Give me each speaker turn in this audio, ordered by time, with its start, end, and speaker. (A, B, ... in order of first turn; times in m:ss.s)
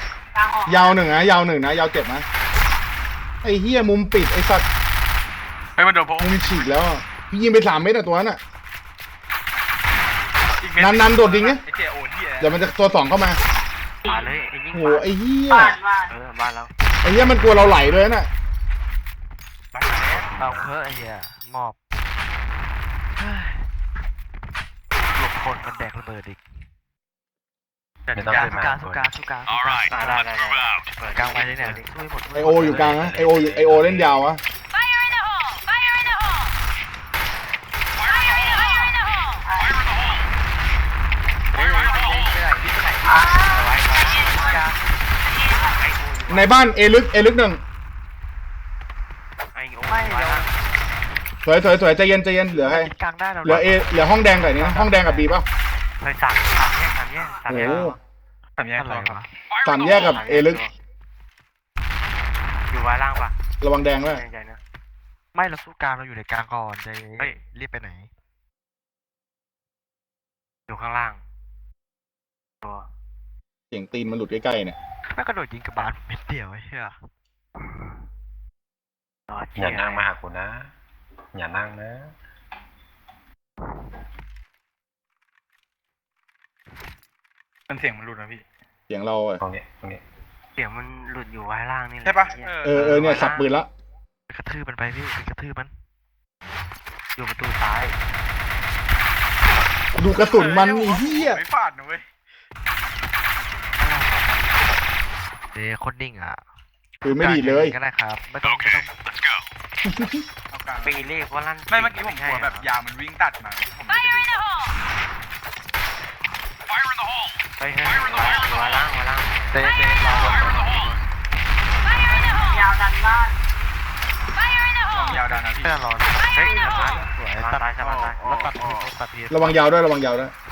0:00.3-0:01.0 A
0:00.6-0:02.2 B
0:03.4-0:04.7 B
0:05.8-0:06.7 C
0:06.2-0:08.4 B
0:10.6-0:12.6 C
0:10.8-0:11.6 B
0:12.4-0:13.4 B
0:14.0-0:16.7 D
0:14.7-0:15.8 B
0:15.5-0:16.1 A
0:17.0-0:18.3 B
0:19.7-0:20.3 D
0:20.3-0:21.8 E
0:20.3-0:20.7 F
0:23.2-0:23.7 E
0:25.1-0:26.7 E
0:28.1-0:29.1 F
0:28.2-0:29.9 E
0:29.9-0:31.9 D
0:31.1-0:33.4 E
0:32.3-0:34.4 B
0:32.6-0:34.2 F
0:39.4-0:39.9 A
0:41.5-0:43.3 E
0:41.6-0:41.9 D
0:43.1-0:44.7 D
0:43.2-0:43.7 A
0:44.1-0:44.8 E
0:45.3-0:45.7 A
0:45.5-0:46.5 D
0:46.3-0:47.6 B
0:49.5-0:50.5 D
0:49.8-0:50.5 E
0:51.4-0:52.9 B
0:52.5-0:55.3 E
0:53.4-0:55.4 B
0:53.5-0:54.1 F
0:54.5-0:55.3 D
0:56.0-0:57.9 D
0:57.5-0:58.0 B
0:57.6-0:57.9 E
0:58.6-0:59.2 C
0:58.7-0:59.3 E
0:59.6-1:00.6 B
0:59.9-1:00.7 D
1:02.7-1:03.3 D
1:03.6-1:04.2 B
1:04.1-1:04.6 D
1:05.3-1:08.1 E
1:10.7-1:11.2 D
1:12.6-1:12.9 D
1:13.7-1:14.8 B
1:15.0-1:17.1 E
1:19.3-1:20.1 D
1:19.6-1:20.7 F
1:21.3-1:22.1 F
1:27.7-1:28.4 C
1:28.9-1:29.4 B
1:29.4-1:30.0 F
1:30.6-1:33.5 D
1:32.0-1:33.0 C
1:32.6-1:33.7 B
1:34.3-1:35.7 E
1:37.2-1:38.0 D
1:40.0-1:41.4 B
1:40.3-1:42.0 C
1:43.8-1:44.6 D
1:45.5-1:46.4 E
1:47.0-1:49.0 E
1:47.0-1:47.8 B
1:49.8-1:50.2 B
1:50.5-1:51.1 C
1:50.8-1:52.7 D
1:51.7-1:54.3 C
1:57.6-1:59.5 D
1:59.5-2:01.0 E
2:02.3-2:03.4 A
2:04.9-2:05.8 C
2:05.1-2:09.6 E
2:06.3-2:08.2 D
2:07.8-2:08.9 C
2:09.3-2:10.3 B